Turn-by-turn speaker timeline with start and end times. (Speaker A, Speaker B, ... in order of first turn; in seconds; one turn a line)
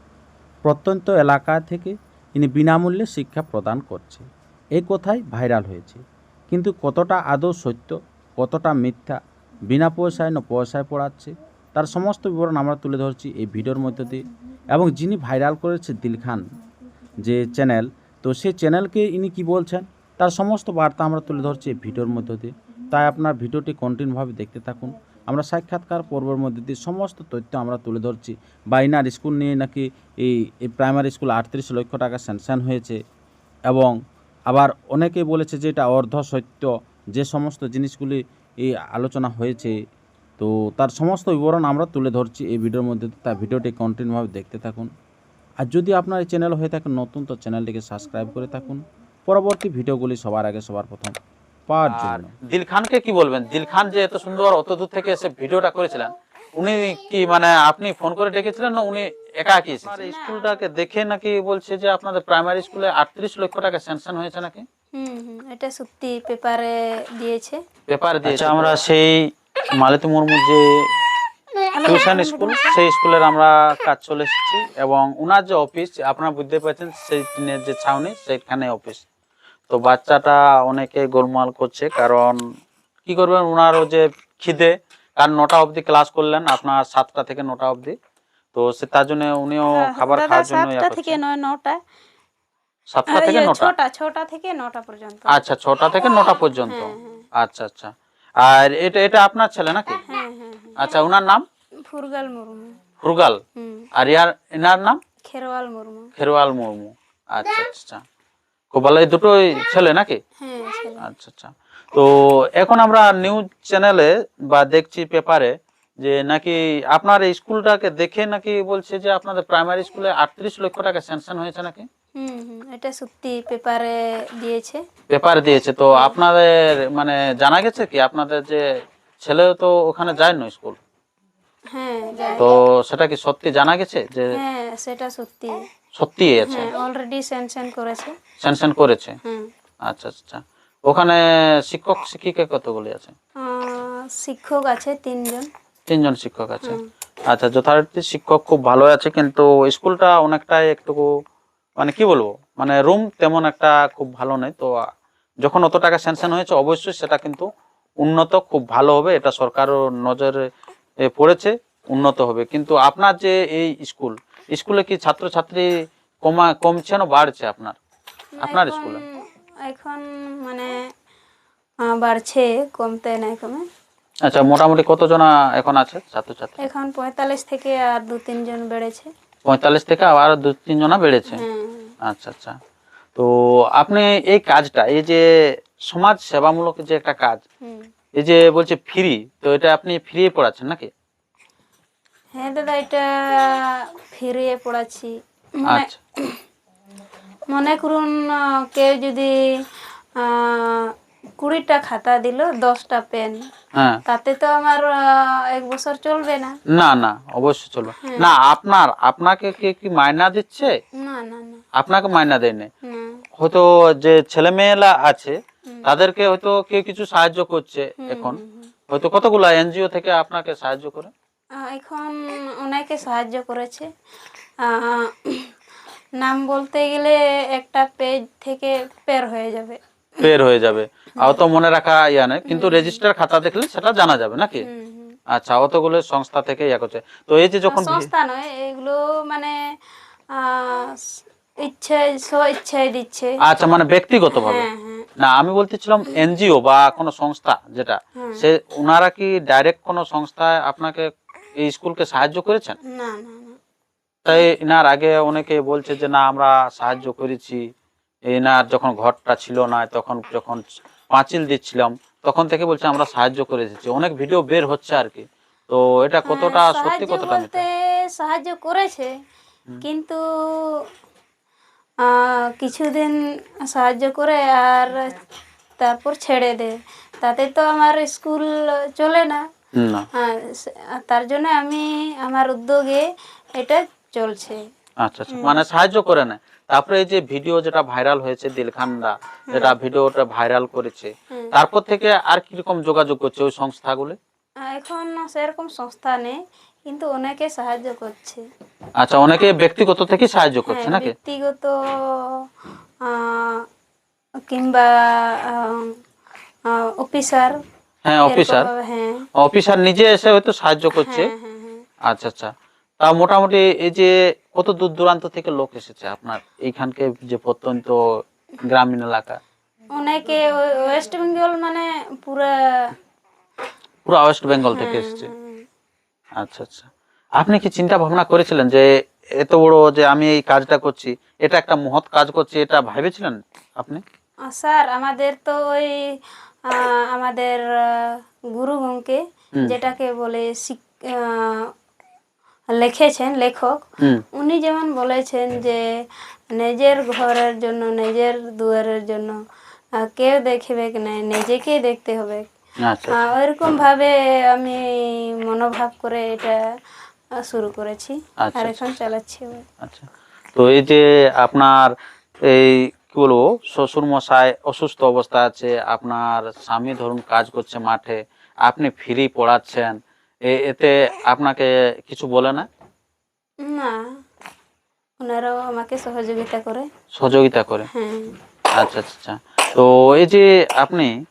Speaker A: 0.6-4.2
Speaker A: 4.8-9.2
Speaker A: 9.7-16.4
Speaker A: 17.2-33.0
Speaker A: 33.7-34.0
Speaker A: 34.5-39.7
Speaker A: 40.4-44.9
Speaker A: 45.6-51.1
Speaker A: 51.7-52.3
Speaker B: 51.9-64.6
Speaker C: 59.9-60.5
Speaker C: 64.9-67.6
Speaker B: 67.9-69.2
Speaker A: 68.2-68.8
Speaker B: 69.8-70.8
Speaker C: 71.7-72.8
Speaker B: 71.8-79.0
Speaker B: 79.7-82.4
Speaker B: 83.0-88.0
Speaker B: 88.5-91.2
Speaker C: 89.7-91.8
Speaker B: 92.9-93.7
Speaker C: 93.1-95.4
Speaker B: 95.3-100.0
Speaker C: 96.3-97.2
Speaker C: 100.0-101.0
Speaker B: 100.8-101.4
Speaker C: 101.9-102.8
Speaker B: 103.0-103.4
Speaker C: 103.6-103.9
Speaker B: 104.0-105.0
Speaker C: 105.2-106.1
Speaker B: 106.2-108.0
Speaker B: 108.7-110.2
Speaker C: 110.4-111.0
Speaker B: 111.0-121.9
Speaker C: 122.2-124.8
Speaker B: 125.1-128.6
Speaker B: 129.2-130.8
Speaker C: 131.7-132.5
Speaker B: 132.4-134.4
Speaker C: 134.3-135.6
Speaker B: 135.9-136.7
Speaker C: 136.4-138.1
Speaker B: 138.4-139.2
Speaker C: 139.2-139.5
Speaker B: 139.8-143.1
Speaker C: 143.4-145.5
Speaker B: 145.9-146.8
Speaker B: 147.3-151.1
Speaker B: 151.8-154.8
Speaker B: 155.4-157.4
Speaker B: 158.0-160.4
Speaker B: 161.1-165.7
Speaker B: 166.2-167.8
Speaker C: 168.4-169.1
Speaker B: 168.4-169.0
Speaker C: 169.7-170.7
Speaker C: 171.9-173.6
Speaker B: 174.2-176.6
Speaker C: 176.6-179.1
Speaker B: 179.4-181.4
Speaker C: 181.3-181.9
Speaker B: 182.0-182.6
Speaker B: 183.2-185.2
Speaker B: 185.9-187.4
Speaker C: 187.6-187.9
Speaker B: 188.2-190.9
Speaker C: 192.3-195.1
Speaker C: 195.6-196.4
Speaker B: 195.7-196.0
Speaker C: 197.5-198.1
Speaker C: 198.7-199.3
Speaker C: 200.2-203.4
Speaker B: 203.7-204.0
Speaker C: 204.1-206.5
Speaker B: 206.7-210.7
Speaker C: 208.0-208.3
Speaker C: 211.0-211.6
Speaker B: 211.7-212.7
Speaker C: 212.9-213.2
Speaker B: 213.4-221.1
Speaker C: 218.0-218.7
Speaker C: 221.6-223.9
Speaker C: 224.6-225.5
Speaker C: 226.2-230.3
Speaker B: 230.2-234.7
Speaker C: 232.5-233.0
Speaker C: 234.6-235.2
Speaker B: 235.3-238.1
Speaker C: 237.7-239.5
Speaker C: 240.3-241.0
Speaker C: 241.6-243.3
Speaker B: 243.4-252.8
Speaker C: 244.3-245.1
Speaker C: 252.9-253.6
Speaker B: 254.2-257.6
Speaker B: 258.3-267.6
Speaker C: 266.3-269.1
Speaker C: 269.8-270.6
Speaker C: 272.0-273.1
Speaker C: 273.7-275.1
Speaker C: 275.8-279.4
Speaker B: 279.8-280.1
Speaker C: 280.1-283.0
Speaker C: 283.6-284.6
Speaker B: 285.0-294.2
Speaker C: 285.3-285.6
Speaker C: 289.5-289.7
Speaker C: 294.6-298.4
Speaker B: 299.0-301.1
Speaker C: 300.7-302.4
Speaker C: 303.0-303.6
Speaker C: 304.5-304.9
Speaker C: 305.5-305.9
Speaker C: 306.7-307.5
Speaker B: 308.1-308.7
Speaker C: 308.2-309.2
Speaker B: 309.4-311.3
Speaker C: 311.0-311.8
Speaker B: 312.0-318.0
Speaker B: 318.6-319.4
Speaker C: 320.0-322.9
Speaker B: 324.1-325.3
Speaker C: 324.7-325.6
Speaker B: 326.4-328.9
Speaker B: 329.4-334.0
Speaker C: 334.5-336.0
Speaker C: 336.7-341.7
Speaker C: 342.7-343.7
Speaker C: 344.3-345.8
Speaker C: 346.5-349.3
Speaker C: 350.0-352.4
Speaker B: 352.8-353.2
Speaker C: 353.1-356.6
Speaker C: 357.4-359.6
Speaker B: 358.4-358.9
Speaker B: 359.8-361.9
Speaker B: 362.4-372.7
Speaker C: 373.6-374.0
Speaker C: 375.2-376.9
Speaker B: 377.1-377.9
Speaker C: 377.9-378.4
Speaker B: 378.8-381.1